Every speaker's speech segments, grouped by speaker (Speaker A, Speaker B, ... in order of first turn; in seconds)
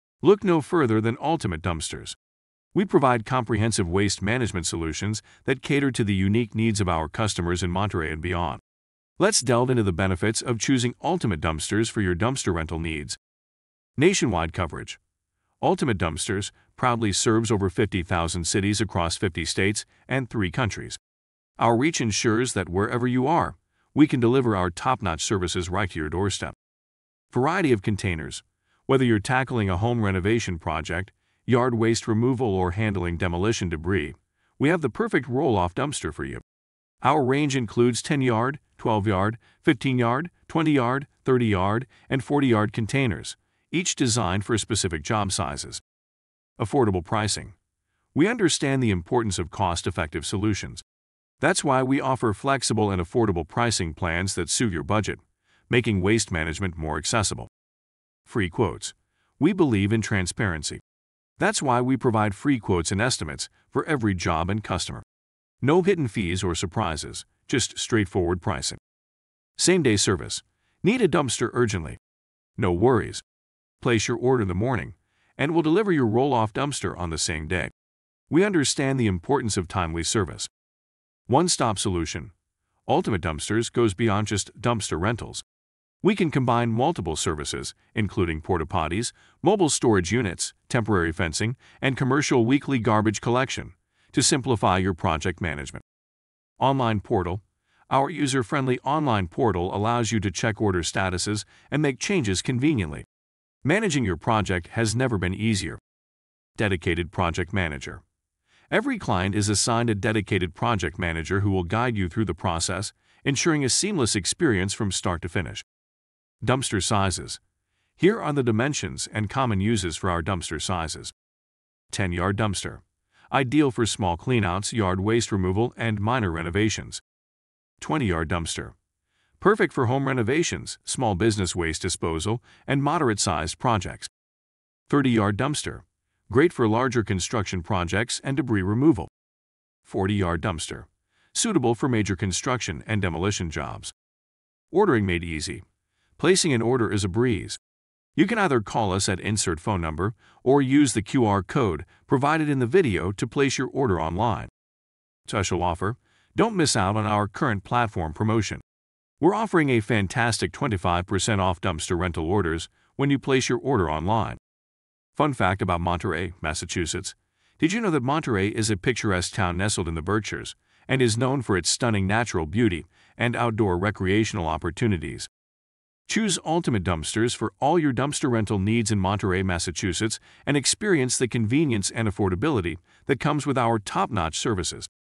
Speaker A: 0.2-2.2, 2.8-8.6, 9.2-13.2, 14.0-15.0, 15.6-21.0, 21.6-26.6, 27.3-36.4, 37.0-45.8, 46.6-47.5, 48.1-50.8, 51.4-57.5, 58.2-60.8, 61.4-65.0, 65.6-68.8, 69.6-72.0, 72.6-73.2, 73.8-77.7, 78.3-80.5, 81.3-82.3, 82.9-85.5, 86.0-95.8, 96.6-103.1, 103.6-105.8, 106.6-108.0, 108.7-115.7, 116.4-117.4, 118.0-121.1, 121.9-127.0, 127.8-128.8, 129.4-134.1, 134.9-139.1, 139.8-143.9, 144.7-145.7, 146.2-147.6, 148.2-154.5, 155.3-158.6, 159.2-164.4, 165.2-175.3, 176.1-184.9